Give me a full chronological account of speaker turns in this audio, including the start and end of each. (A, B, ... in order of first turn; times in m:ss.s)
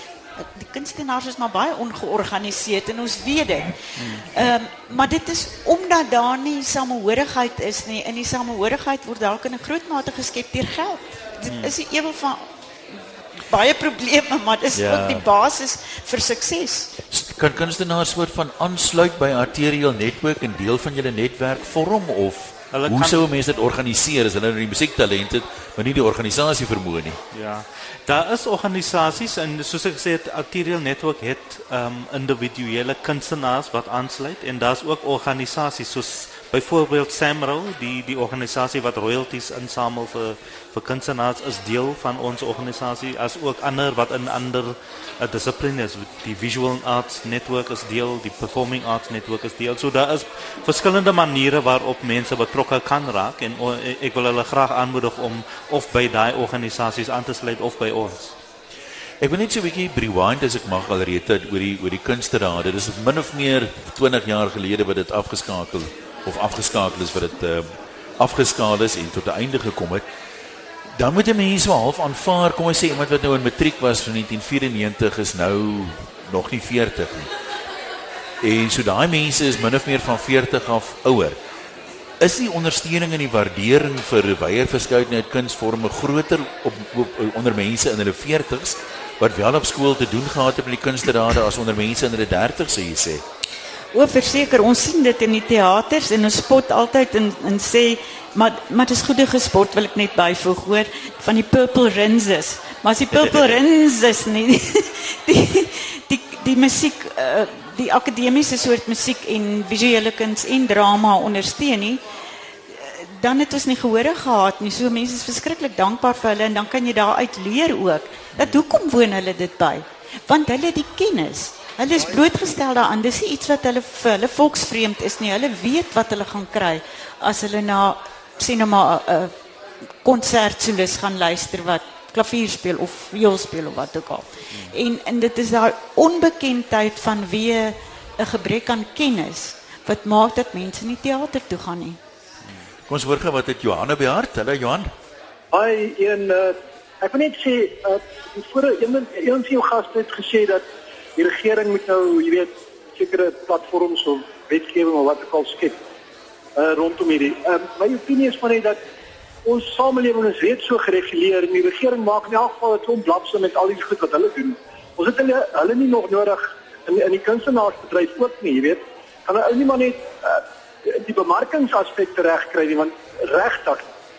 0:00.4-0:12.4 A
0:04.0-0:04.4 B
0:11.5-0:11.7 B
0:13.5-0:16.9 A
0:14.8-0:15.3 C
0:17.1-0:27.2 C
0:22.7-0:23.3 B
0:27.3-0:58.4 B
0:59.2-1:10.0 C
1:11.0-1:17.3 C
1:18.4-1:21.4 C
1:22.2-1:33.2 C
1:33.9-1:52.0 A
1:52.7-2:09.3 A
2:10.0-2:22.0 A
2:22.9-2:24.9 C
2:25.5-2:30.6 D
2:31.2-2:35.8 D
2:36.6-2:38.8 D
2:39.5-2:53.9 D